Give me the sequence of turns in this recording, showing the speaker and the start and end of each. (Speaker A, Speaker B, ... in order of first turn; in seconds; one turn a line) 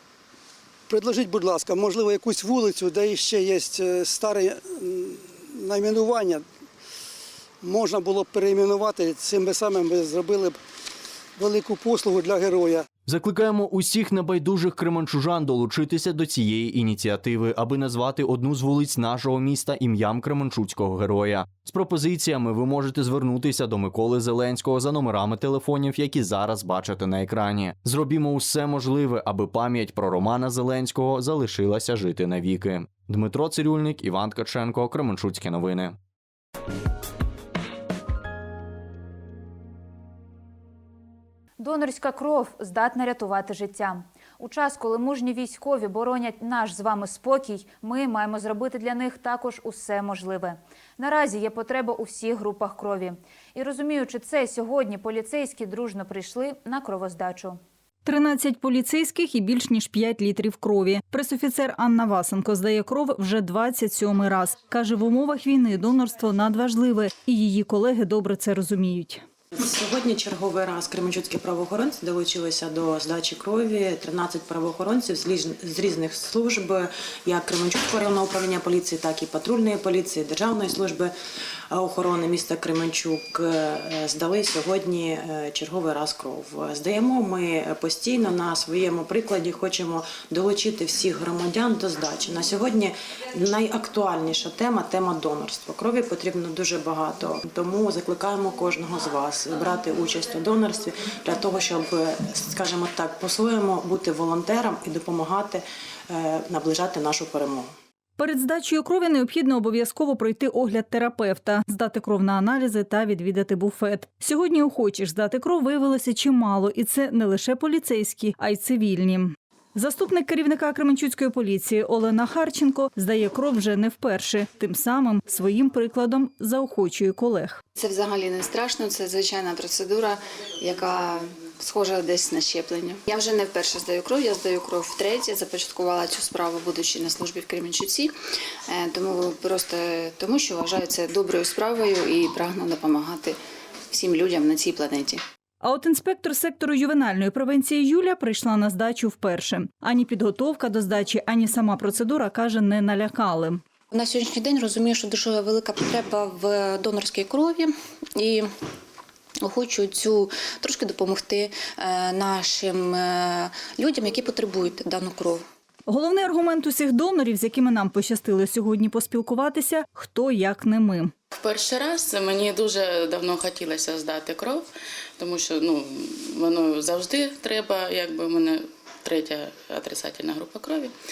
Speaker A: 0.9-6.4
Speaker A: 7.6-10.6
Speaker A: 11.4-12.8
Speaker B: 13.1-36.0
Speaker C: 41.6-57.6
Speaker D: 58.0-69.2
Speaker E: 69.5-81.1
Speaker E: 81.7-107.7
Speaker D: 108.2-127.6
Speaker F: 127.7-138.1
Speaker F: 138.7-143.4
Speaker F: 143.9-145.2
Speaker D: 145.6-153.6
Speaker F: 153.9-158.5
Speaker F: 159.4-165.4
Speaker D: 165.9-171.1
Speaker G: 171.3-174.7
Speaker G: 175.2-180.9